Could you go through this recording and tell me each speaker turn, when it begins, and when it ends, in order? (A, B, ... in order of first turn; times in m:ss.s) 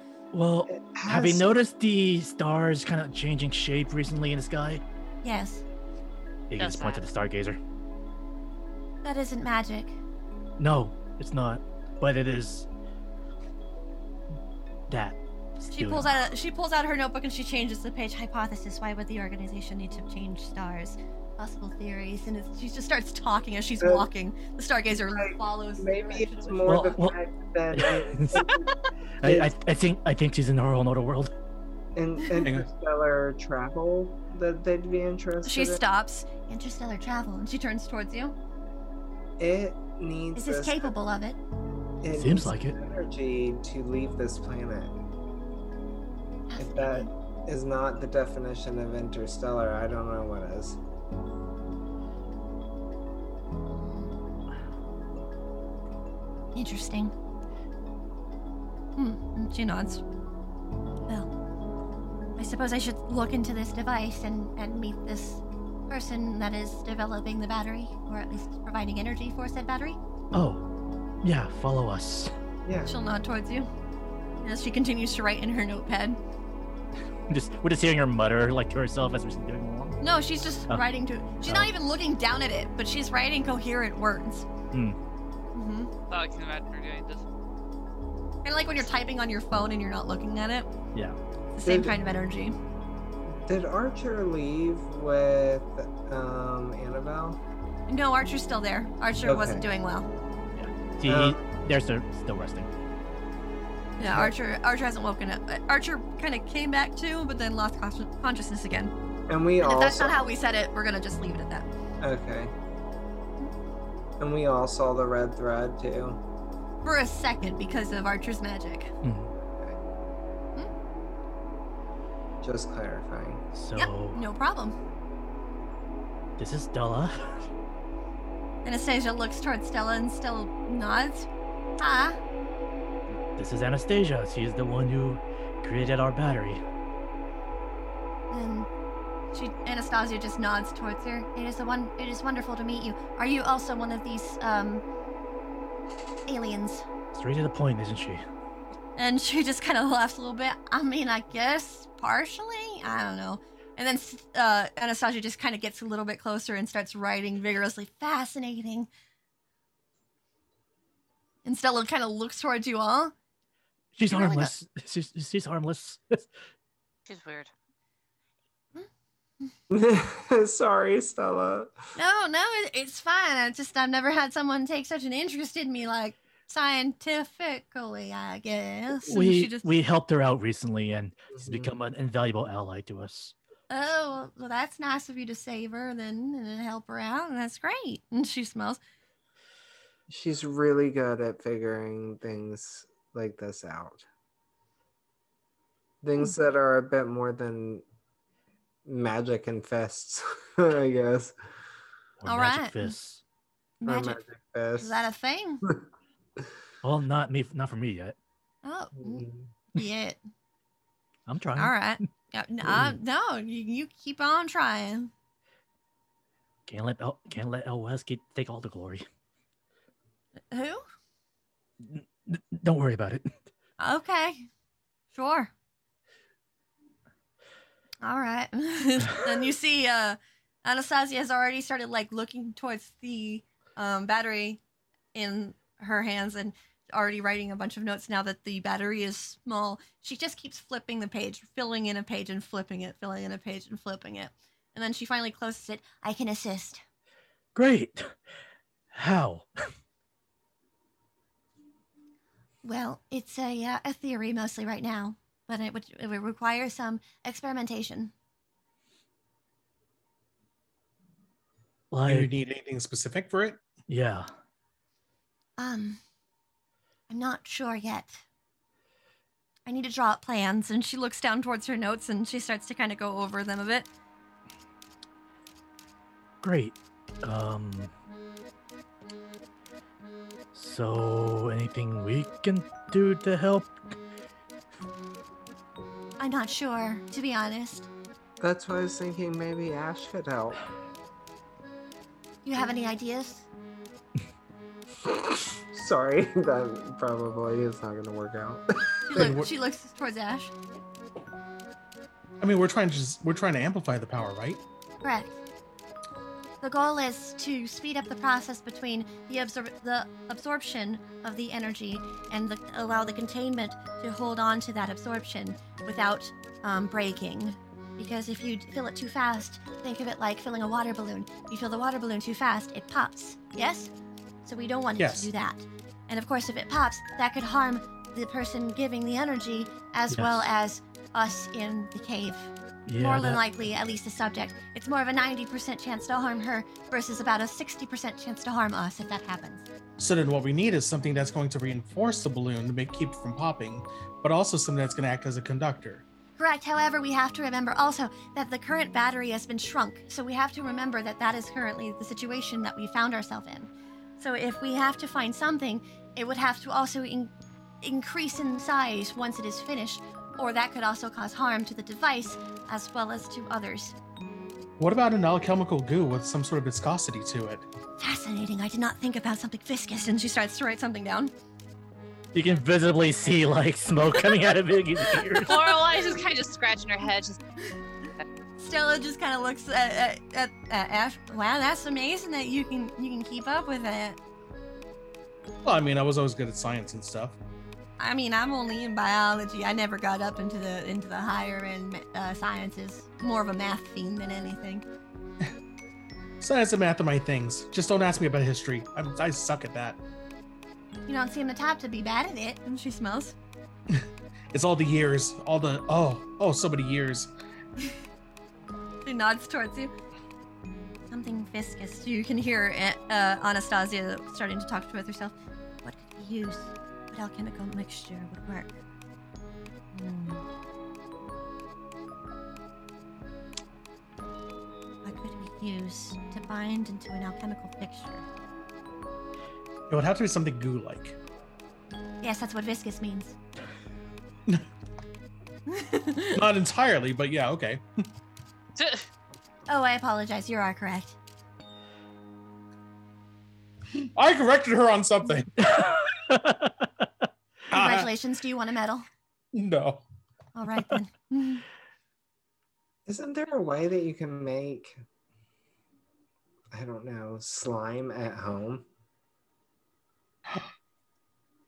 0:00.3-0:04.8 A
0:00.7-0:01.5 B
0:05.2-0:05.6 C
0:06.5-0:07.6 A
0:06.6-0:07.1 D
0:09.0-0:10.0 C
0:10.6-0:12.7 A
0:14.9-0:16.1 A
0:15.7-0:26.7 C
0:23.8-0:24.1 B
0:25.1-0:28.7 B
0:26.7-0:27.2 A
0:27.7-0:28.5 A
0:29.2-0:31.3 A
0:29.2-0:29.5 B
0:32.0-0:35.8 B
0:32.4-0:32.7 E
0:35.4-0:38.4 C
0:39.4-0:40.9 B
0:40.4-0:41.4 C
0:42.0-0:45.0 B
0:42.1-0:42.8 A
0:46.5-0:47.1 C
0:46.6-0:50.8 B
0:53.7-0:54.1 C
0:56.6-0:57.1 C
0:59.0-1:00.0 C
1:02.4-1:10.0 C
1:10.3-1:10.6 A
1:11.2-1:12.3 A
1:12.7-1:12.9 B
1:12.8-1:13.7 C
1:14.4-1:16.2 C
1:17.3-1:20.0 A
1:20.0-1:24.5 C
1:21.4-1:21.7 A
1:24.7-1:25.0 A
1:25.6-1:25.9 C
1:26.1-1:27.2 D
1:28.4-1:30.7 C
1:31.6-1:32.6 C
1:31.6-1:32.0 B
1:33.4-1:37.4 B
1:37.9-1:40.1 C
1:39.2-1:39.6 B
1:40.6-1:42.7 A
1:41.0-1:41.4 B
1:44.0-1:48.9 C
1:49.3-1:50.2 B
1:49.6-1:51.7 C
1:52.0-1:52.5 B
1:54.2-1:56.2 B
1:56.8-1:58.9 C
1:59.0-1:59.3 A
2:02.4-2:03.4 B
2:03.5-2:04.2 A
2:03.8-2:04.8 C
2:06.4-2:07.5 A
2:08.6-2:11.3 C
2:11.8-2:12.2 C
2:13.4-2:16.6 A
2:18.3-2:18.7 C
2:19.3-2:24.8 C
2:26.3-2:26.8 C
2:27.1-2:28.2 A
2:29.0-2:38.9 C
2:41.4-2:43.1 C
2:44.0-2:46.3 A
2:44.1-2:44.5 C
2:47.1-2:47.5 D
2:49.7-2:51.7 B
2:52.0-2:59.7 C
2:59.1-3:03.3 A
3:01.3-3:01.7 B
3:03.7-3:08.8 C
3:10.1-3:14.1 B
3:16.0-3:17.8 B
3:18.9-3:21.3 B
3:22.2-3:23.2 A
3:22.3-3:23.0 C
3:23.8-3:24.2 C
3:23.8-3:25.1 B
3:24.8-3:25.6 C
3:26.8-3:28.2 A
3:28.6-3:30.2 C
3:29.0-3:29.5 B
3:31.3-3:31.9 A
3:31.6-3:35.1 C
3:32.6-3:33.0 A
3:36.7-3:39.1 A
3:40.5-3:40.8 C
3:41.8-3:43.4 A
3:43.8-3:44.5 C
3:45.1-3:45.5 C
3:48.0-3:54.6 C
3:55.1-4:06.8 C
4:07.6-4:08.2 A
4:08.9-4:09.7 A
4:12.6-4:18.1 C
4:21.9-4:22.3 A
4:22.1-4:23.6 E
4:23.9-4:24.3 A
4:25.6-4:26.0 C
4:27.1-4:28.2 C
4:29.7-4:33.9 C
4:36.4-4:37.9 A
4:40.5-4:43.8 A
4:46.2-4:47.9 C
4:48.4-4:50.6 B
4:52.4-4:53.5 C
4:55.0-4:59.3 B
4:59.1-5:00.5 C
4:59.2-4:59.5 E
5:02.4-5:04.6 E
5:05.0-5:05.4 C
5:06.6-5:23.9 C
5:24.4-5:39.6 C
5:25.0-5:25.3 E
5:30.1-5:30.5 A
5:32.9-5:33.4 A
5:40.0-5:46.0 E
5:46.4-5:57.3 C
5:57.8-6:04.0 C
6:04.8-6:07.7 E
6:08.0-6:11.3 C
6:12.3-6:15.6 A
6:15.4-6:17.4 D
6:18.6-6:24.2 C
6:25.6-6:27.4 E
6:28.0-6:34.8 C
6:36.4-6:40.0 E
6:41.1-6:43.4 C
6:43.9-6:47.3 E
6:49.0-6:49.9 C
6:51.1-6:58.8 C
6:59.9-7:00.4 C
7:05.0-7:08.2 C
7:09.9-7:11.2 E
7:12.2-7:13.4 C
7:15.7-7:16.4 C
7:16.4-7:17.8 E
7:18.8-7:19.1 D
7:19.7-7:21.2 C
7:24.2-7:25.5 E
7:25.6-7:27.1 A
7:27.7-7:28.1 E
7:27.7-7:29.0 C
7:29.5-7:30.0 E
7:30.6-7:31.6 C
7:33.1-7:35.0 B
7:36.7-7:38.8 B